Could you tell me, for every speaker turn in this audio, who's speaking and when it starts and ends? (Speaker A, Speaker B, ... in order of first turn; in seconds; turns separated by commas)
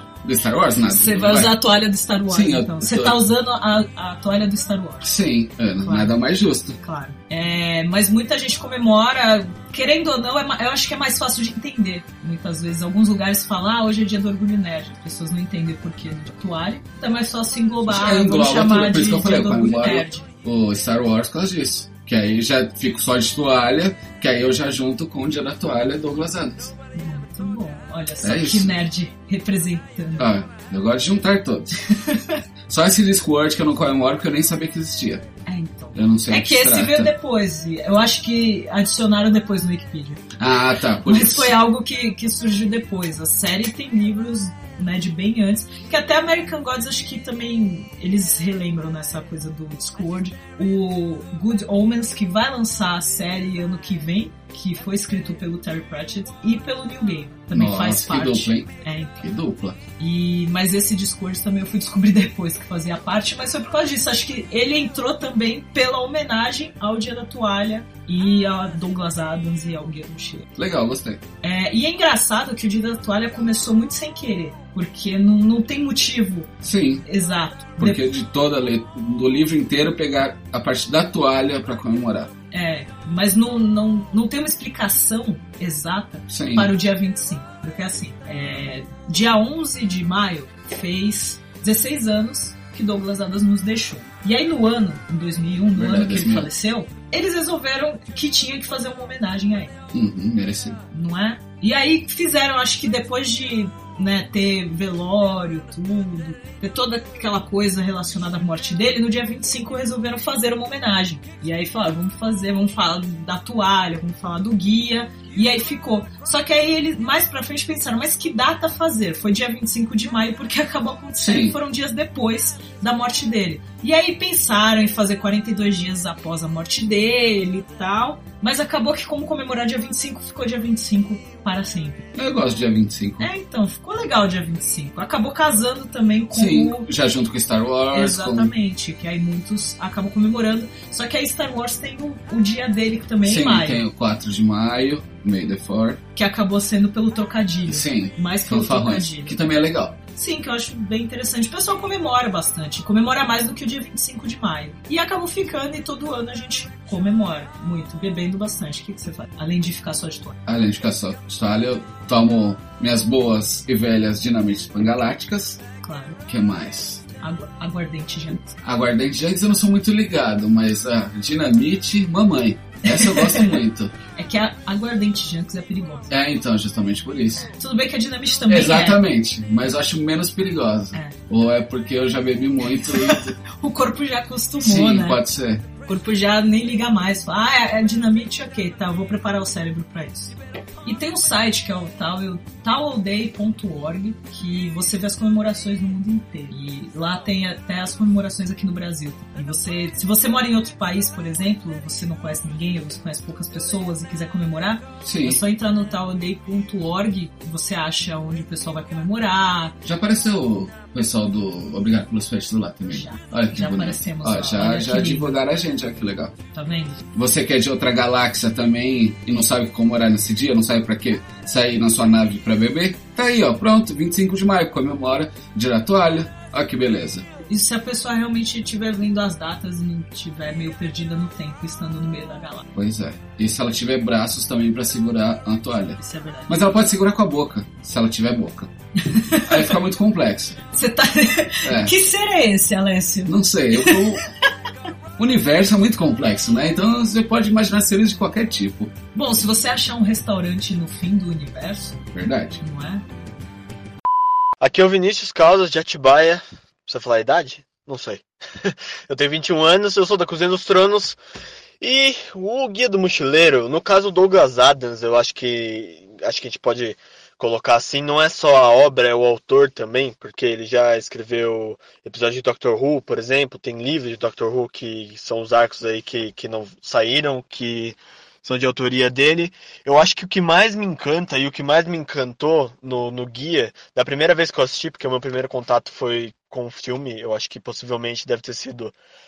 Speaker A: 0.2-1.6, Speaker B: 0.9-5.1, Speaker A: 2.3-3.2, Speaker A: 5.0-6.8, Speaker B: 5.8-6.1, Speaker B: 6.8-20.3, Speaker A: 17.9-26.7, Speaker B: 26.9-30.4, Speaker A: 28.2-28.7, Speaker A: 30.2-31.8, Speaker B: 31.9-32.4, Speaker A: 32.7-35.2, Speaker B: 35.5-40.2, Speaker A: 36.0-37.1, Speaker A: 40.4-41.5, Speaker B: 41.0-59.2, Speaker A: 57.5-58.7, Speaker A: 59.2-59.8, Speaker B: 60.0-70.5, Speaker A: 70.6-71.2, Speaker B: 71.4-76.5, Speaker A: 76.6-77.0, Speaker B: 77.0-78.0, Speaker A: 77.8-82.3, Speaker B: 82.5-99.8, Speaker A: 86.3-86.7, Speaker A: 95.8-96.5, Speaker A: 99.9-100.8, Speaker B: 100.9-132.1, Speaker A: 121.2-121.6, Speaker A: 132.1-133.3, Speaker B: 133.2-136.9, Speaker A: 136.3-138.5, Speaker B: 137.9-143.8, Speaker A: 143.2-146.0, Speaker B: 146.2-149.6, Speaker A: 147.7-150.0, Speaker B: 150.1-160.4, Speaker A: 160.5-165.6, Speaker B: 165.8-166.2, Speaker A: 166.3-167.0, Speaker B: 167.2-168.6, Speaker A: 168.6-173.9, Speaker B: 172.8-173.6, Speaker B: 174.2-176.1, Speaker A: 176.1-177.5, Speaker B: 177.4-179.0, Speaker A: 178.5-183.4, Speaker B: 182.8-185.2, Speaker A: 184.6-185.7, Speaker B: 185.9-209.8, Speaker A: 205.0-205.4, Speaker A: 209.8-216.4, Speaker B: 212.9-215.4, Speaker B: 216.5-217.0, Speaker A: 217.1-227.3, Speaker B: 227.5-232.7, Speaker A: 232.7-238.7, Speaker B: 236.0-236.7, Speaker B: 239.0-239.8, Speaker A: 239.4-240.6, Speaker B: 240.7-244.2, Speaker A: 241.6-241.9, Speaker A: 243.3-244.2, Speaker A: 245.2-248.9, Speaker B: 249.2-252.0, Speaker A: 252.1-252.6, Speaker B: 252.6-253.1, Speaker C: 254.6-261.2, Speaker C: 261.8-288.9